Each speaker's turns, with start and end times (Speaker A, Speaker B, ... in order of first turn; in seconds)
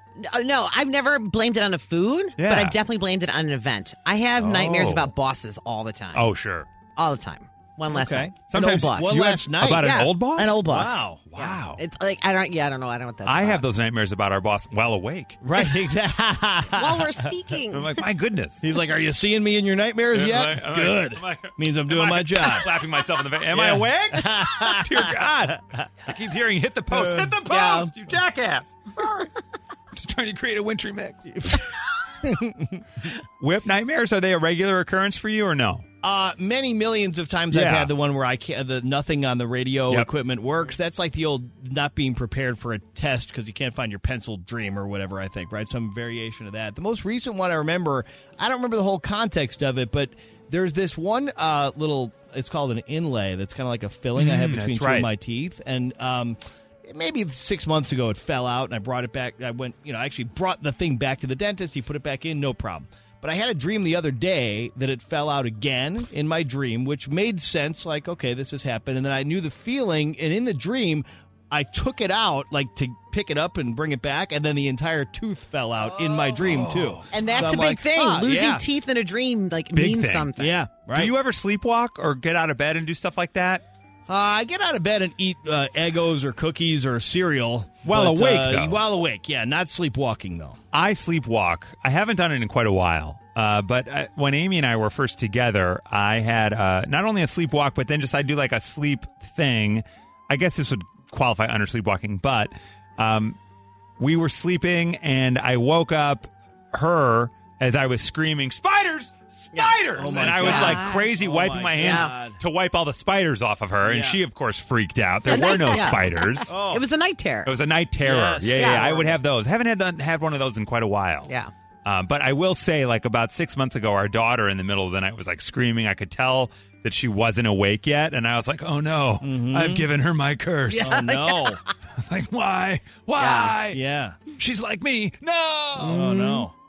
Speaker A: 0.2-6.3, 7.0-13.6, 27.5-27.9, 77.1-80.6, 109.5-110.8, 111.8-112.1, 115.3-117.5, 118.5-119.0, 130.7-131.7, 133.2-133.5, 135.9-136.5
Speaker B: 2.4-2.8, 4.4-5.1, 6.1-6.7, 8.5-10.6, 11.3-11.8, 13.2-15.4, 17.7-18.6, 20.1-29.3, 29.9-31.6, 33.4-35.9, 37.5-37.9, 54.2-55.1, 76.4-77.5, 79.7-83.7, 87.8-88.8, 90.7-103.4, 104.0-116.5, 117.5-121.3, 121.8-131.1, 132.0-133.8, 134.4-136.2
Speaker C: 7.9-10.1, 10.6-11.2, 15.4-17.3, 18.6-22.7, 23.5-25.8, 26.9-27.8, 31.3-31.7, 32.2-32.8, 36.0-78.6, 80.4-81.1, 84.1-90.6, 110.0-112.4, 113.8-114.2, 116.5-116.8, 118.0-119.2, 129.2-129.9, 130.7-131.6, 133.7-134.2, 135.8-136.5
Speaker D: 16.7-18.0, 110.6-111.0, 115.3-116.0